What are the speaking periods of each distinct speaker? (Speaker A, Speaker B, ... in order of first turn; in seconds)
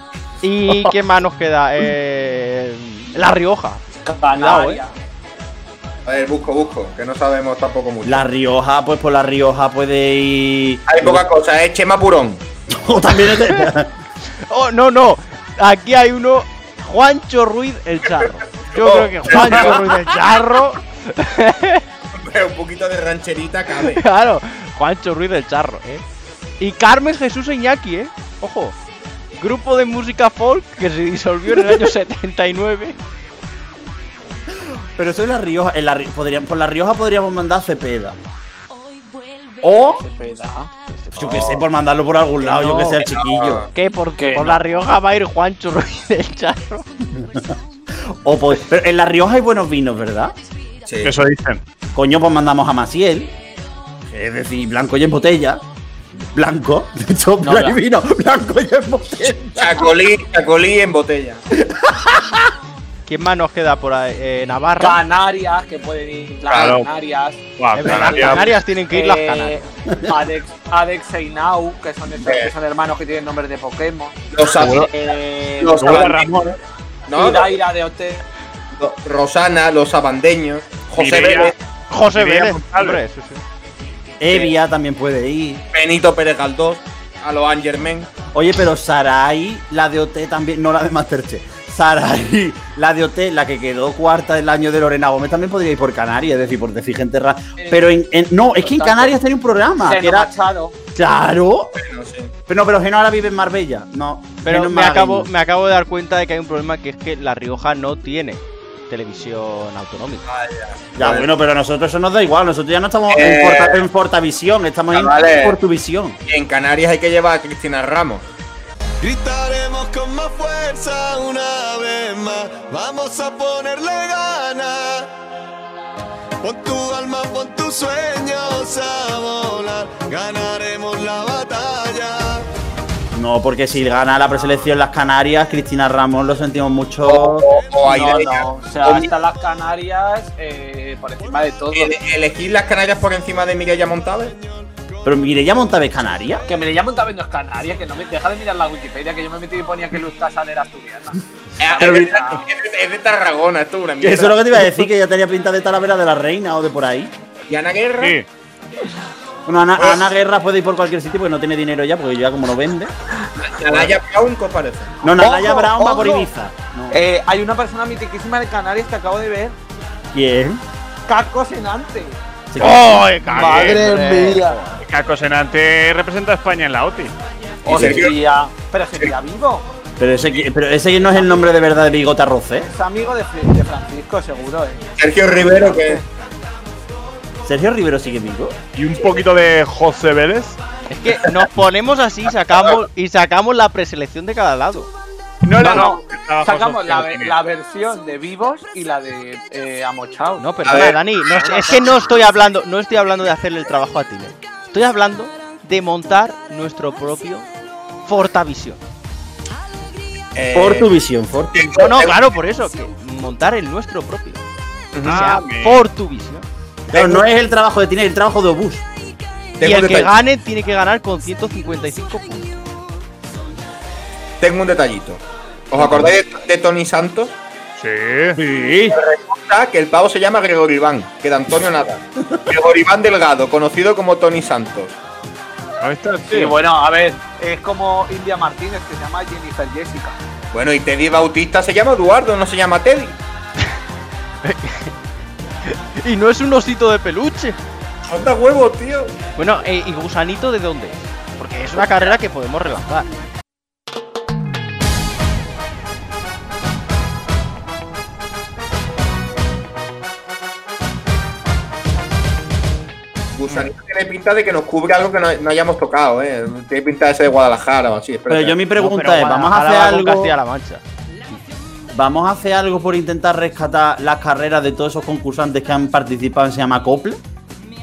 Speaker A: 0.4-3.8, 4.4-4.8, 14.4-21.8, 23.9-26.0, 26.6-28.8, 29.4-33.0, 41.1-41.5, 43.7-46.8, 63.1-65.0, 67.7-69.6, 81.9-83.4, 104.4-110.2, 172.6-174.7, 190.9-194.9, 200.4-207.5, 208.1-208.8, 211.7-214.4, 215.1-216.4, 219.6-222.5, 244.4-244.9, 245.6-247.6, 249.4-253.1, 268.8-270.8
Speaker B: 4.0-4.9, 40.0-40.7, 44.2-44.6, 57.4-57.8, 64.8-74.2, 74.9-76.0, 77.1-78.2, 97.6-97.9, 98.6-99.1, 99.8-100.7, 137.8-141.9, 146.4-152.4, 165.2-166.3, 166.9-169.5, 171.1-172.2, 173.3-174.6, 177.6-179.7, 182.6-184.9, 185.4-186.0, 195.6-200.4, 236.3-240.2
Speaker C: 6.0-8.2, 10.9-12.4, 18.7-20.3, 22.1-24.0, 41.2-41.6, 43.0-43.7, 50.9-51.2, 59.6-61.4, 66.5-66.8, 72.2-72.5, 74.3-74.9, 75.6-76.4, 77.1-77.5, 78.8-81.5, 85.7-88.1, 101.8-102.3, 110.3-111.3, 113.1-113.8, 114.9-115.6, 116.3-118.2, 137.0-139.1, 141.7-144.4, 151.6-154.8, 157.5-158.2, 159.8-160.0, 163.2-165.0, 177.6-178.1, 185.0-186.0, 200.7-201.8, 210.3-210.9, 211.5-212.3, 214.9-215.2, 216.9-217.2, 219.6-220.1, 224.4-227.3, 228.8-234.9, 240.5-243.2, 248.1-249.1, 251.8-252.1, 263.3-268.6
Speaker D: 8.1-11.2, 12.7-13.9, 34.6-38.2, 39.6-40.0, 41.1-43.7, 47.1-50.3, 51.9-53.3, 54.1-55.6, 56.3-59.9, 61.6-62.5, 84.2-85.6, 88.3-100.3, 100.9-101.8, 102.5-105.3, 111.0-116.2, 133.1-137.4, 145.0-146.4, 151.8-152.2, 154.0-157.1, 159.4-162.9, 165.0-167.0, 170.1-170.6, 172.5-173.1, 177.7-178.0, 180.0-182.7, 187.4-188.6, 210.5-211.9, 216.9-218.9, 225.8-226.1, 228.3-229.0, 268.3-270.3, 271.9-277.2
Speaker E: 51.0-51.6, 66.6-66.8, 67.6-68.4, 74.6-74.9, 75.8-76.6, 81.0-81.5, 82.1-83.0, 158.0-158.2, 173.3-173.9, 174.8-177.1, 188.7-190.6, 195.4-197.3, 215.0-215.8, 227.8-228.3, 235.8-236.6
Speaker F: 119.0-125.1, 126.4-132.4